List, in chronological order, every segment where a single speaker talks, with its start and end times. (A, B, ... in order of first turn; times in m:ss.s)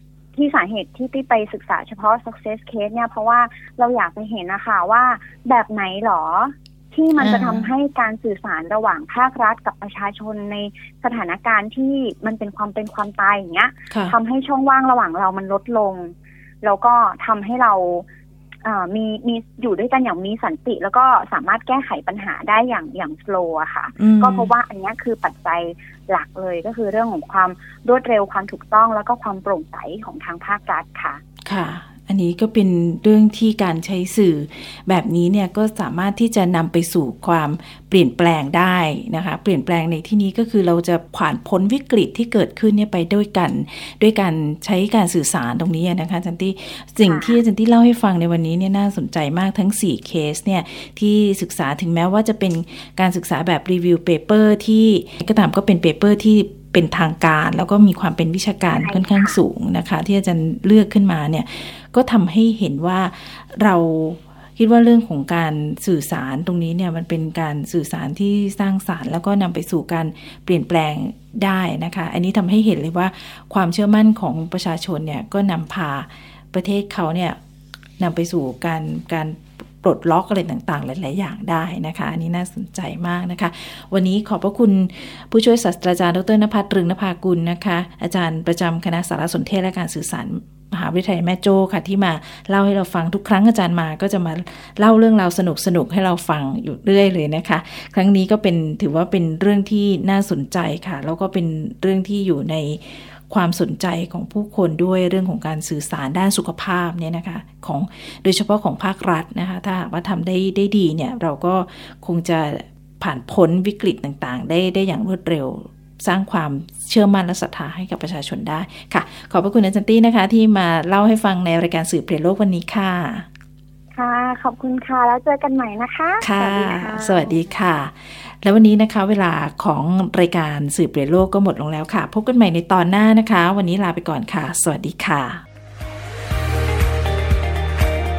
0:00.3-0:18.1 A
0:07.2-0:07.7 B
0:13.9-0:14.2 B
0:18.6-0:31.2 A
0:24.0-0:24.5 B
0:31.4-1:17.4 B
0:47.1-0:47.4 A
0:58.8-0:59.4 A
1:18.0-2:03.3 B
2:04.0-2:07.5 A
2:06.2-2:15.4 B